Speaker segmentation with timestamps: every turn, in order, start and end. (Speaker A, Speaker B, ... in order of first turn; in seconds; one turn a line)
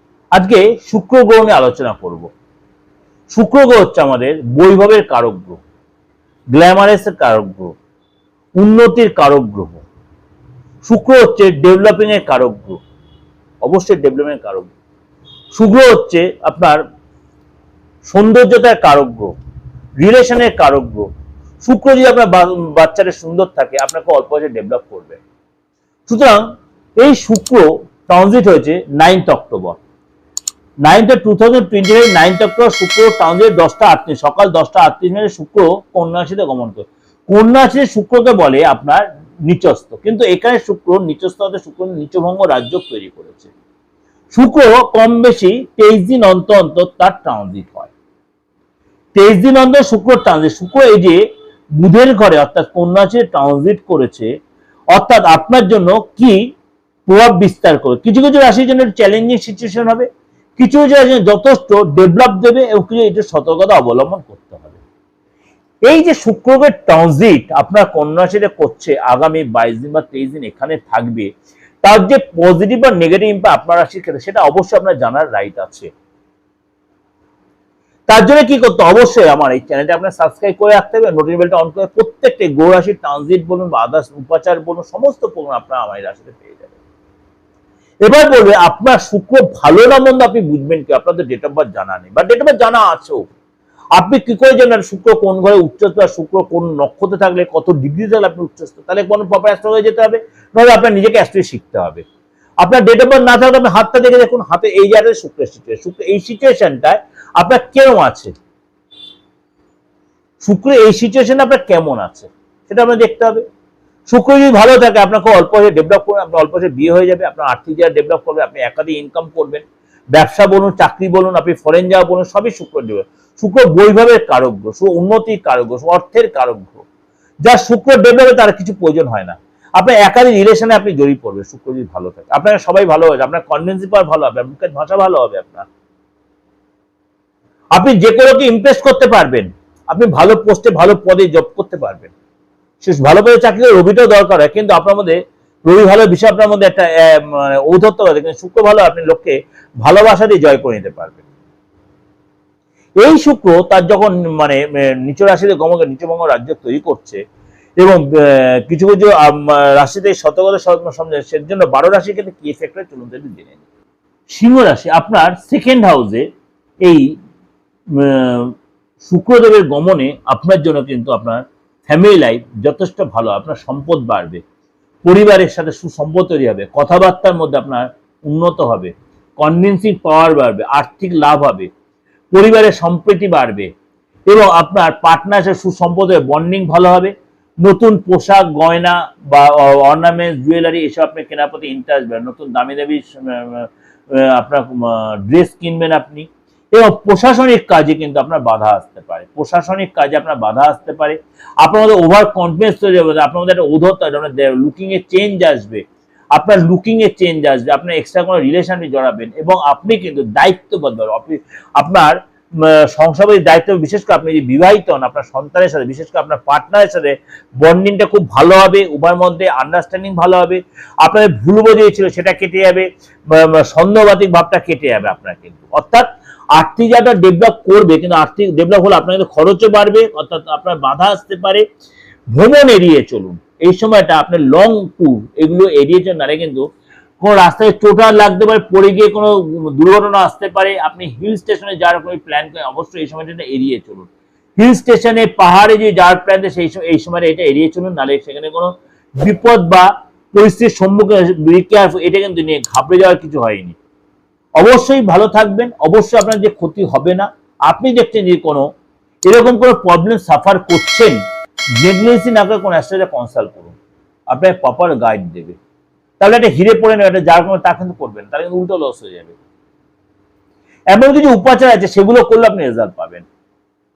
Speaker A: 0.3-2.3
Speaker A: 3.3-5.6
Speaker A: 6.5-7.8
Speaker A: 8.6-9.8
Speaker A: 10.8-12.8
Speaker A: 13.6-14.7
Speaker A: 15.5-16.8
Speaker A: 18.1-19.3
Speaker A: 20.0-21.1
Speaker A: 21.6-25.2
Speaker A: 26.1-26.4
Speaker A: 27.0-29.8
Speaker A: 30.8-43.5
Speaker A: 44.3-47.9
Speaker A: 49.1-51.2
Speaker A: 51.8-54.3
Speaker A: 54.9-56.4
Speaker A: 57.1-60.1
Speaker A: 60.6-64.8
Speaker A: 65.9-71.3
Speaker A: 71.8-75.9
Speaker A: 78.1-86.8
Speaker A: 88.0-93.3
Speaker A: 94.0-102.0
Speaker A: 102.6-108.3
Speaker A: 110.4-113.5
Speaker A: 114.1-126.8
Speaker A: 127.4-135.7
Speaker A: 137.8-142.1
Speaker A: 142.8-151.2
Speaker A: 153.0-157.2
Speaker A: 157.8-163.6
Speaker A: 164.3-166.3
Speaker A: 166.8-167.1
Speaker A: 167.9-174.4
Speaker A: 175.0-181.7
Speaker A: 182.3-183.7
Speaker A: 184.3-231.7
Speaker A: 232.3-236.7
Speaker A: 237.2-253.8
Speaker A: 254.6-258.7
Speaker A: 259.3-261.2
Speaker A: 261.8-263.8
Speaker A: 264.3-265.6
Speaker A: 266.2-269.4
Speaker A: 270.9-273.3